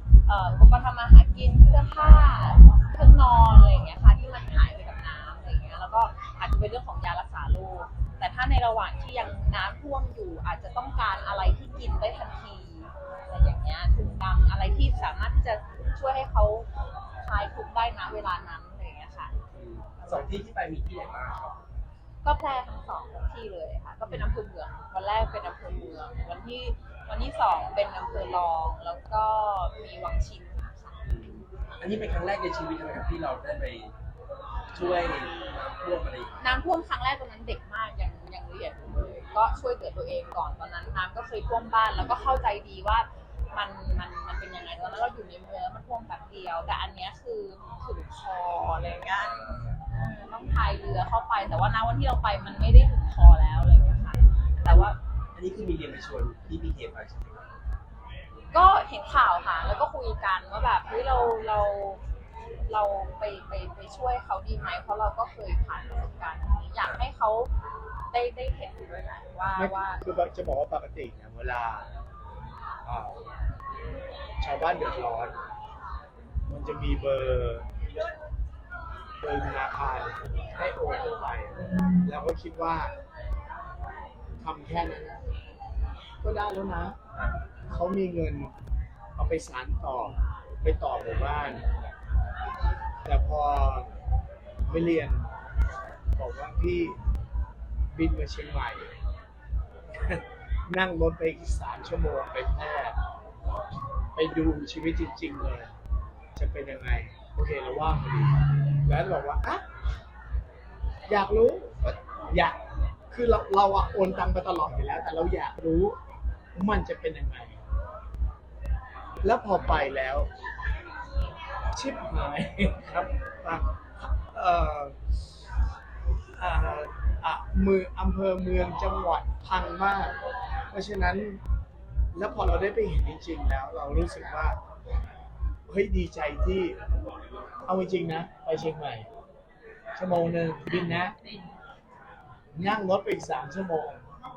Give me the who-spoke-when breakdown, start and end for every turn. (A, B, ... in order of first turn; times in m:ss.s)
0:00.3-0:16.7 A
0:17.2-0:19.3 A
0:19.5-0:21.6 B
0:20.0-0:20.3 A
0:22.2-0:31.0 A
0:31.0-0:33.9 B
0:34.7-0:36.3 B
0:36.4-0:55.0 A
0:49.4-0:49.8 B
0:54.7-0:57.5 B
0:58.5-1:02.0 A
1:02.7-1:07.5 A
1:08.1-1:10.0 A
1:09.6-1:11.9 C
1:12.8-1:13.2 C
1:14.4-1:15.4 C
1:16.5-1:17.6 C
1:19.2-1:21.5 C
1:22.0-1:22.9 C
1:24.4-1:25.2 C
1:26.2-1:27.0 C
1:27.7-1:28.5 C
1:29.2-1:31.6 C
1:33.0-1:33.9 C
1:34.7-1:35.3 C
1:36.2-1:37.0 C
1:37.9-1:38.9 C
1:40.0-1:43.0 C
1:44.2-1:45.7 C
1:46.4-1:49.6 C
1:51.1-1:52.6 C
1:53.1-1:56.0 C
1:56.6-1:57.6 C
1:59.2-2:00.3 C
2:01.8-2:05.2 C
2:06.4-2:10.2 C
2:10.7-2:11.4 C
2:12.1-2:14.6 C
2:15.7-2:16.8 C
2:17.7-2:19.1 C
2:20.0-2:21.2 C
2:22.6-2:24.0 C